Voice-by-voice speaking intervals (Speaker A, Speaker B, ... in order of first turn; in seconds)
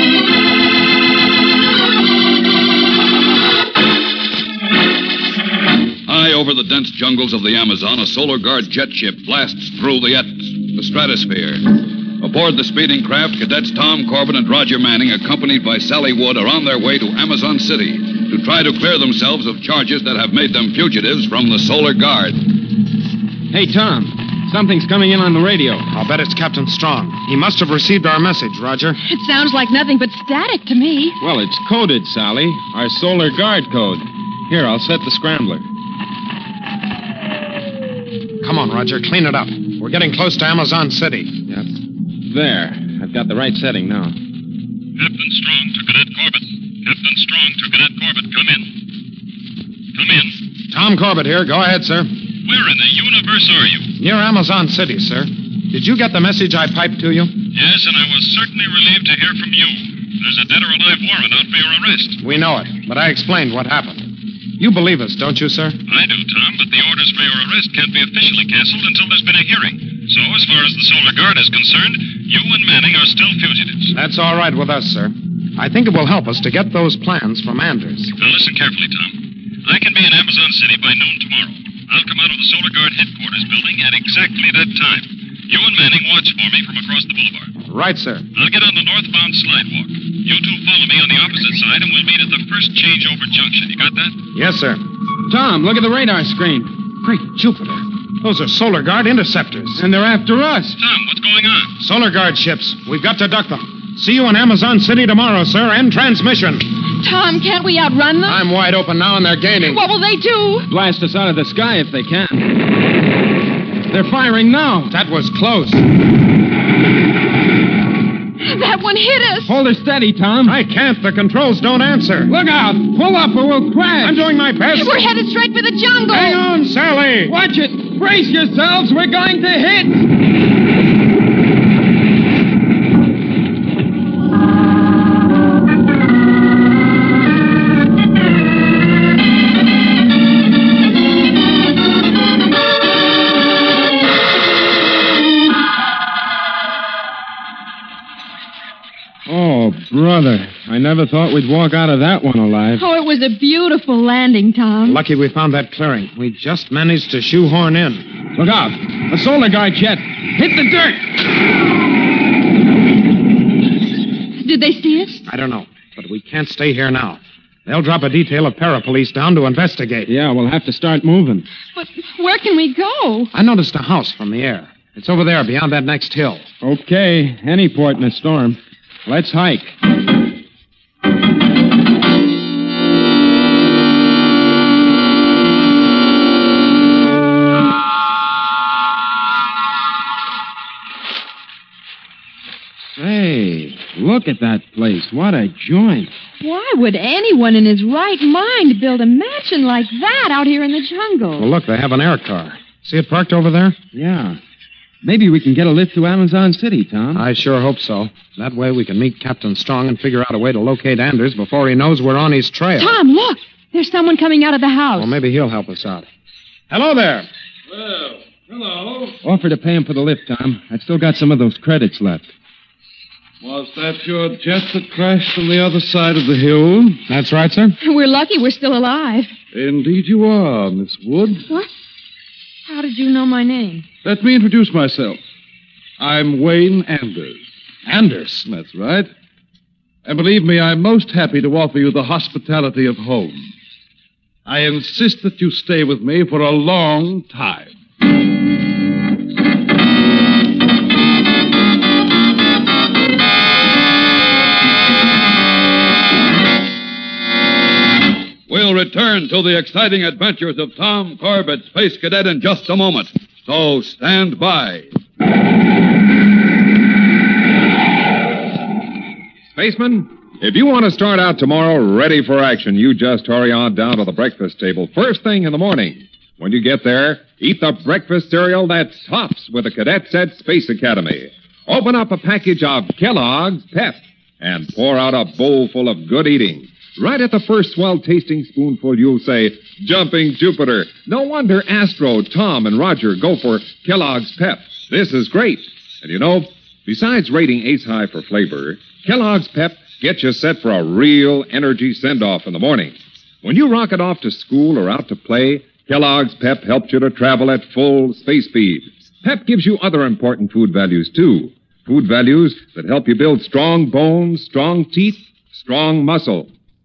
Speaker A: 6.0-22.4, 258.5-264.9
Speaker B: 23.5-25.9, 31.2-35.6, 42.3-44.1, 95.3-96.8, 99.8-100.8, 110.7-112.5, 113.9-114.9, 119.4-120.5, 122.3-124.2, 127.2-130.0, 149.3-152.8, 158.3-161.0, 170.1-171.4, 176.6-179.7, 193.0-196.1, 203.9-204.4, 205.0-207.2, 219.2-222.3
Speaker C: 25.9-29.0, 38.4-41.3, 50.7-52.1, 54.0-57.3, 62.2-65.8, 73.9-78.1, 87.6-88.2, 94.3-94.8, 97.0-99.8, 101.8-106.7, 108.2-109.8, 114.9-115.8, 120.5-122.3, 124.0-125.0, 126.1-127.3, 154.8-158.1, 165.2-170.1, 173.3-176.4, 201.4-203.8, 207.1-212.9, 214.9-216.1, 216.7-217.3, 227.1-227.8, 237.8-238.4
Speaker D: 29.0-31.2, 107.0-108.4, 109.6-110.7, 118.4-119.5, 124.7-126.4, 152.8-155.0, 164.4-165.2, 171.7-173.3, 196.4-201.5, 212.8-215.2, 227.8-229.3, 232.7-233.8
Speaker E: 45.0-48.7, 49.9-50.4, 52.4-53.9, 57.5-62.2, 65.9-74.0, 78.2-87.5, 88.3-94.2, 100.8-101.8
Speaker F: 217.7-219.2, 223.4-227.0, 229.5-231.4, 234.0-235.2, 236.0-237.4, 238.4-239.1, 240.0-243.5, 244.4-247.7
Speaker G: 269.5-316.5